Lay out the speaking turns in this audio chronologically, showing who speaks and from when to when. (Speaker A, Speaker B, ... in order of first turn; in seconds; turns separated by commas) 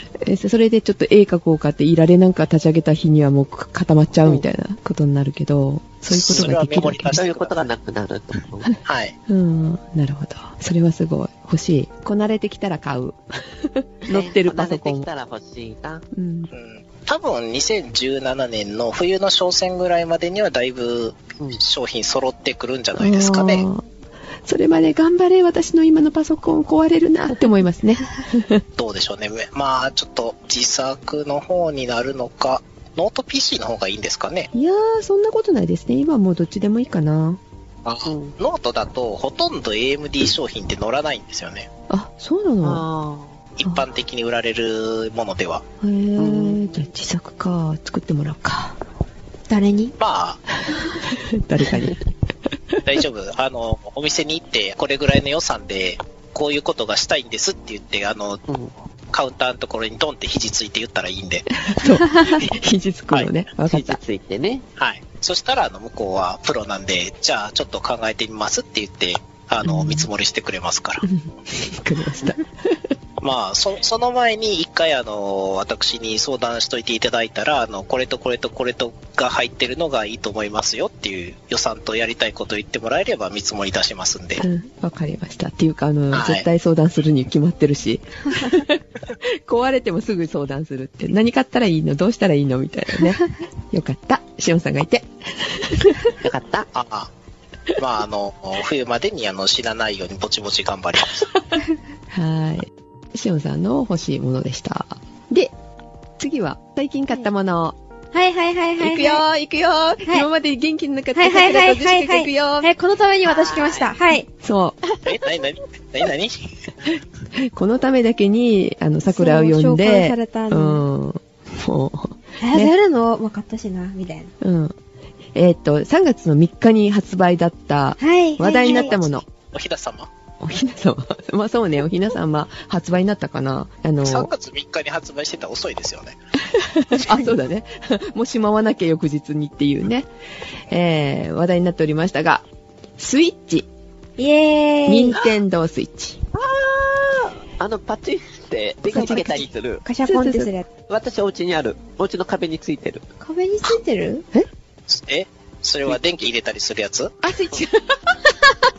Speaker A: 0.2-7.2, Speaker B: 6.1-7.7, Speaker C: 6.3-6.5, Speaker C: 7.1-8.7, Speaker B: 8.8-9.1, Speaker A: 9.3-15.1, Speaker C: 14.1-16.1, Speaker A: 16.1-16.5, Speaker B: 16.5-23.6, Speaker A: 22.9-23.8, Speaker A: 24.4-28.6, Speaker B: 28.8-34.5, Speaker A: 34.5-37.4, Speaker B: 37.8-41.7, Speaker C: 38.0-38.3, Speaker A: 41.9-42.9, Speaker C: 42.6-43.4, Speaker B: 43.6-45.6, Speaker A: 45.8-48.8, Speaker C: 46.2-46.6, Speaker D: 49.5-49.9, Speaker B: 50.0-50.4, Speaker A: 51.1-52.0, Speaker A: 52.7-53.0, Speaker B: 52.8-58.4, Speaker B: 59.1-61.5, Speaker A: 61.6-64.0, Speaker B: 63.1-63.4, Speaker C: 63.7-64.6, Speaker B: 64.8-71.0, Speaker A: 69.6-70.1, Speaker A: 71.0-72.9, Speaker B: 73.2-84.4, Speaker A: 84.4-96.1, Speaker B: 86.1-86.4, Speaker C: 96.2-96.7, Speaker B: 96.7-97.1, Speaker B: 97.8-101.2, Speaker A: 102.1-105.5, Speaker A: 106.2-107.8, Speaker D: 108.1-109.2, Speaker A: 108.8-112.7, Speaker D: 111.1-114.3, Speaker C: 113.2-113.9, Speaker A: 114.3-114.8, Speaker B: 115.0-116.6, Speaker A: 117.3-122.7, Speaker D: 119.0-120.8, Speaker D: 122.4-124.3, Speaker A: 124.4-124.7, Speaker A: 125.3-129.2, Speaker D: 128.0-128.9, Speaker B: 128.6-130.1, Speaker A: 130.4-134.3, Speaker B: 134.0-136.2, Speaker A: 136.5-140.1, Speaker A: 140.7-142.4, Speaker A: 143.0-143.7, Speaker D: 144.2-145.2, Speaker A: 144.9-146.2, Speaker C: 146.3-149.8, Speaker A: 148.8-149.5, Speaker D: 148.9-150.7, Speaker A: 150.0-150.5, Speaker C: 150.9-153.0, Speaker D: 153.2-154.2, Speaker B: 154.9-157.1, Speaker C: 155.9-156.3, Speaker A: 157.2-158.5